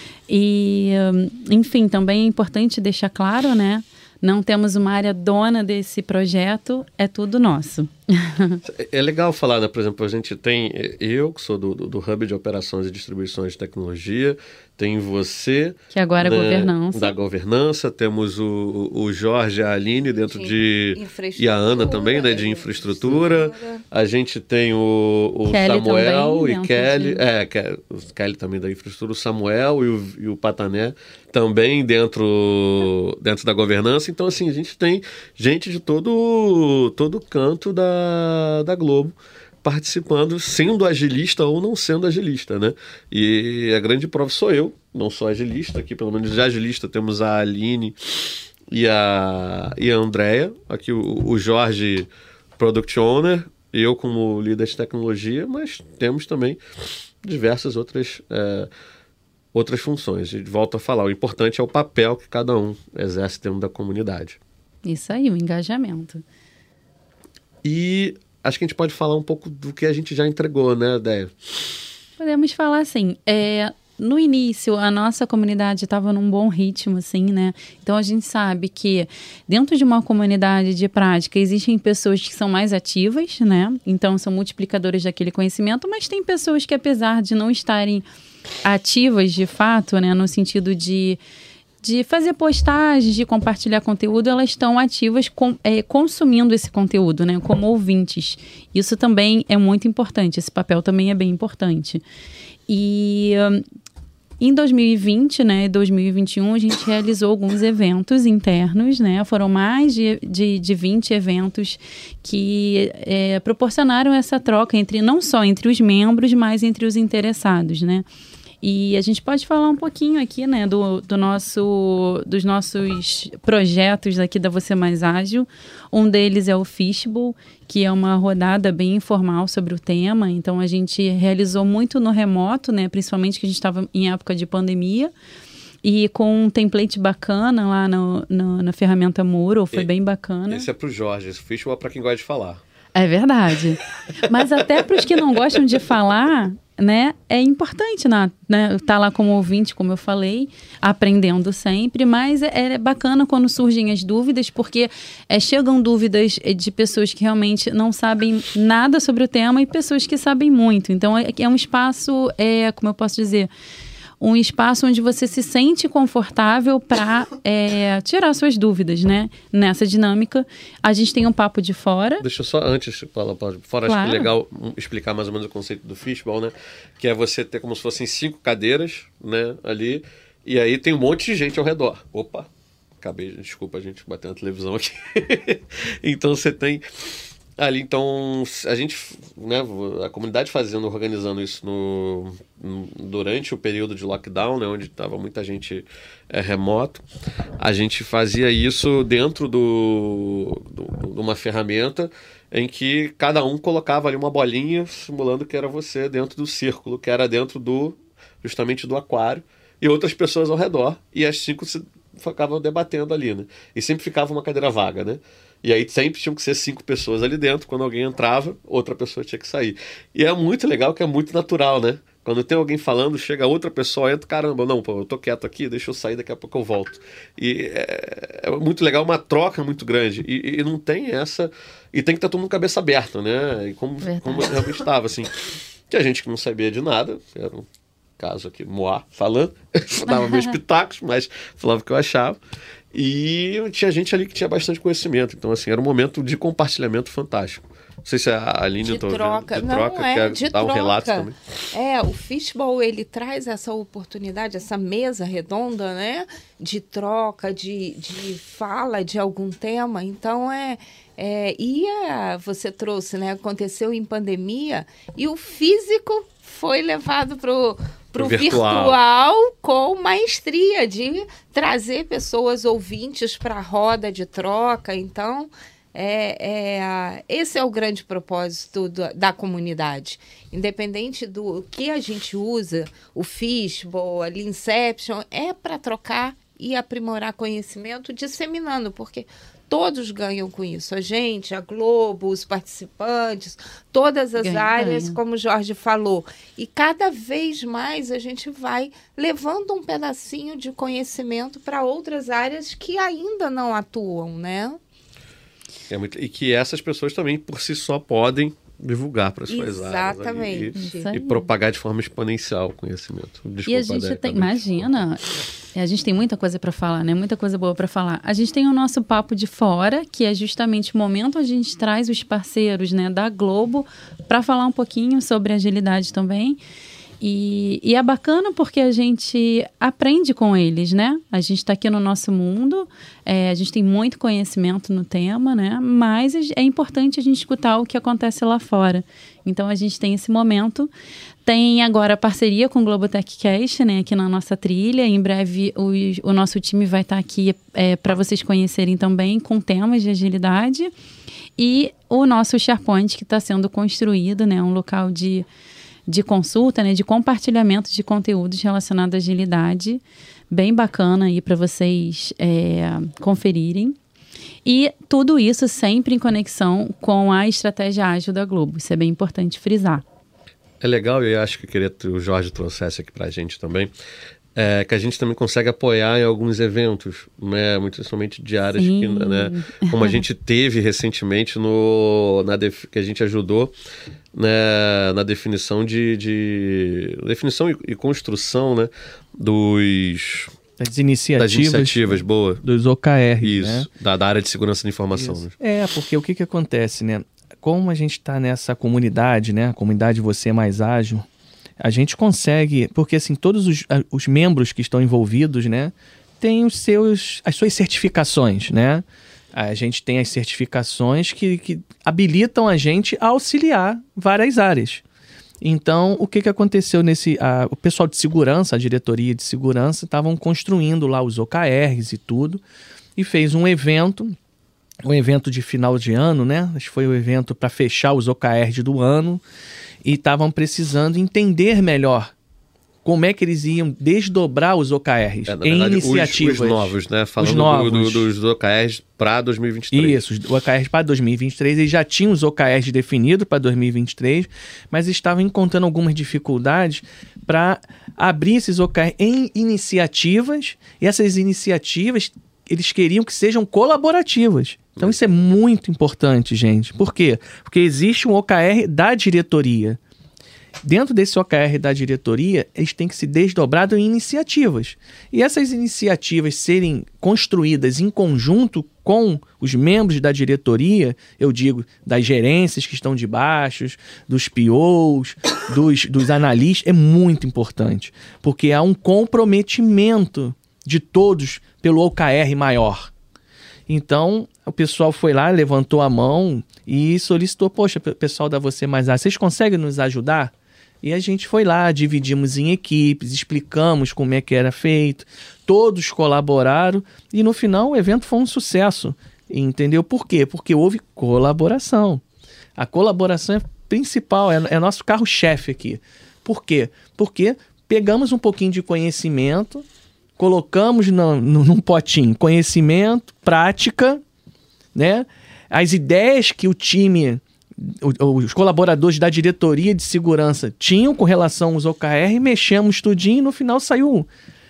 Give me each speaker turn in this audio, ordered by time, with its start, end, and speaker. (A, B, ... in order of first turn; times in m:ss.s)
0:00.3-0:08.6 A
0:08.6-0:56.6 B
0:15.9-0:17.1 A
0:20.1-0:23.8 C
0:25.5-0:27.2 A
0:57.2-0:58.7 B
0:59.5-1:04.4 B
1:04.8-1:06.2 A
1:07.6-1:11.6 B
1:12.2-1:28.0 A
1:28.6-1:31.2 A
1:31.8-1:42.0 A
1:42.7-1:43.6 A
1:44.4-1:58.0 A
1:58.6-2:15.1 A
2:15.8-2:20.7 A
2:20.5-2:22.6 B
2:22.9-2:43.5 A
2:44.2-2:52.2 A
2:52.2-3:02.5 B
2:53.8-2:54.3 A
3:03.0-3:06.8 B
3:07.6-3:17.0 B
3:17.6-3:57.6 B
3:54.0-3:54.6 A
3:58.2-4:02.4 B
4:00.1-4:00.5 A
4:02.9-4:11.3 B
4:08.8-5:04.8 C
4:28.2-4:29.0 B
4:54.4-4:55.2 A
5:05.9-5:14.9 B
5:09.5-5:11.1 C
5:10.7-5:11.4 A
5:13.7-5:26.6 A
5:27.2-5:40.9 A
5:41.4-5:50.9 A
5:51.6-5:55.4 A
5:56.1-6:04.0 A
6:04.6-6:10.0 A
6:10.8-6:13.9 B
6:14.6-6:23.7 B
6:18.7-6:20.2 A
6:24.3-6:30.5 B
6:30.8-6:33.9 D
6:31.4-6:32.6 B
6:33.4-6:35.5 B
6:35.1-6:41.2 D
6:41.8-6:55.0 D
6:55.6-7:02.6 D
7:03.2-7:04.3 D
7:05.0-7:09.4 D
7:10.0-7:12.3 D
7:13.0-7:18.3 D
7:15.5-7:20.2 B
7:19.9-7:40.0 D
7:40.8-8:03.1 D
8:03.9-8:22.2 D
8:22.8-8:29.8 D
8:30.4-8:34.2 D
8:34.9-8:44.3 D